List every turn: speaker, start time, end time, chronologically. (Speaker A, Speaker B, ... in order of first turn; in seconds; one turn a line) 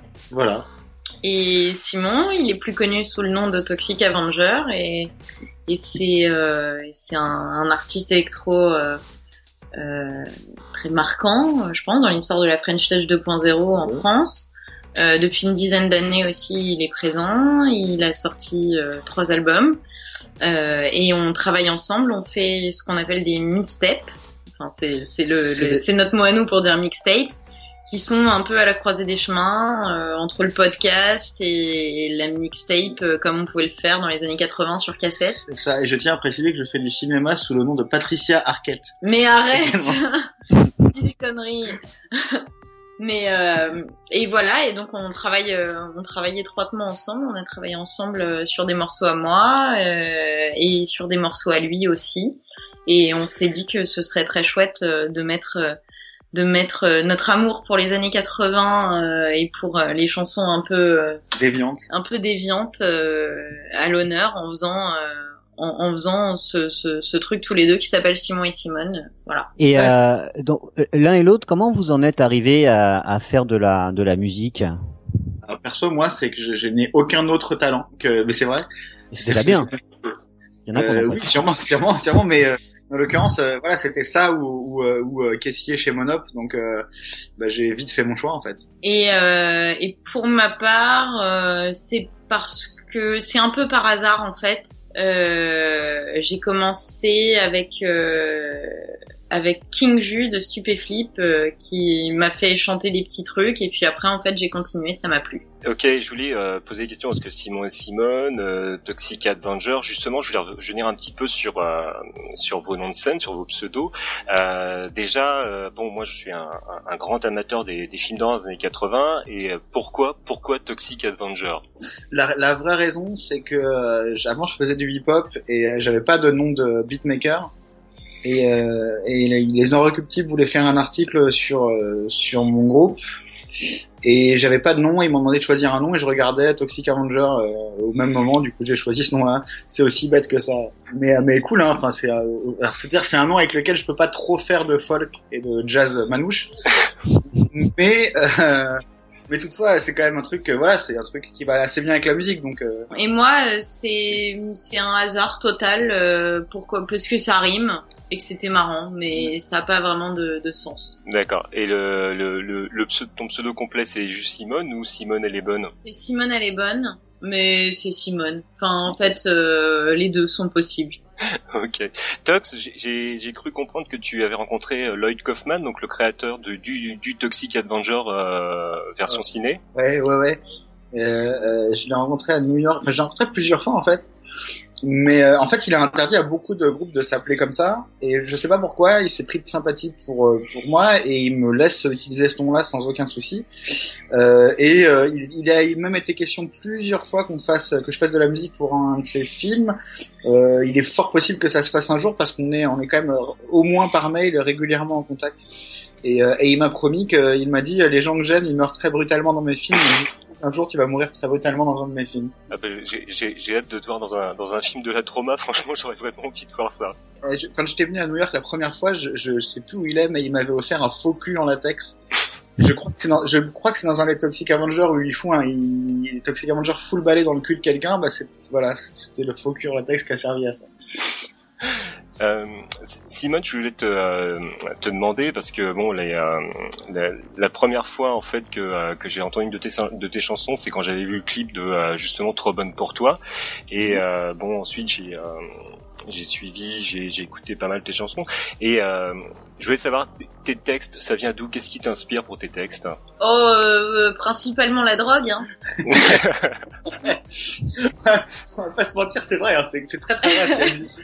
Speaker A: 0.3-0.7
Speaker B: 1.2-5.1
Speaker B: 5.7-9.0
Speaker B: 9.8-19.8
Speaker A: 13.8-14.0
Speaker B: 20.4-35.4
Speaker A: 25.5-25.8
Speaker A: 35.4-39.0
Speaker B: 39.0-40.3
Speaker A: 39.5-40.0
Speaker B: 40.9-42.5
Speaker B: 43.0-55.8
Speaker B: 56.3-61.2
Speaker A: 61.3-61.9
Speaker B: 61.9-70.0
Speaker C: 69.6-74.7
Speaker A: 75.4-78.7
Speaker C: 79.1-79.7
Speaker A: 79.2-79.8
Speaker C: 80.7-81.3
Speaker A: 80.8-86.8
Speaker A: 87.4-88.6
Speaker B: 88.8-105.4
Speaker D: 105.7-121.6
Speaker A: 122.1-127.5
Speaker A: 128.2-133.0
Speaker A: 134.0-146.5
Speaker A: 147.4-152.9
Speaker B: 152.9-161.0
Speaker D: 161.1-165.7
Speaker B: 165.8-171.0
Speaker A: 168.9-169.1
Speaker D: 171.5-179.6
Speaker A: 179.8-180.4
Speaker A: 180.9-184.1
Speaker A: 184.8-193.5
Speaker A: 194.1-205.4
Speaker A: 206.0-212.3
Speaker D: 212.5-216.9
Speaker A: 217.2-222.0
Speaker A: 222.6-230.7
Speaker D: 232.2-245.4
Speaker D: 246.1-253.0
Speaker B: 253.2-255.5
Speaker D: 255.9-256.6
Speaker A: 255.9-256.2
Speaker A: 257.0-260.9
Speaker B: 260.3-260.8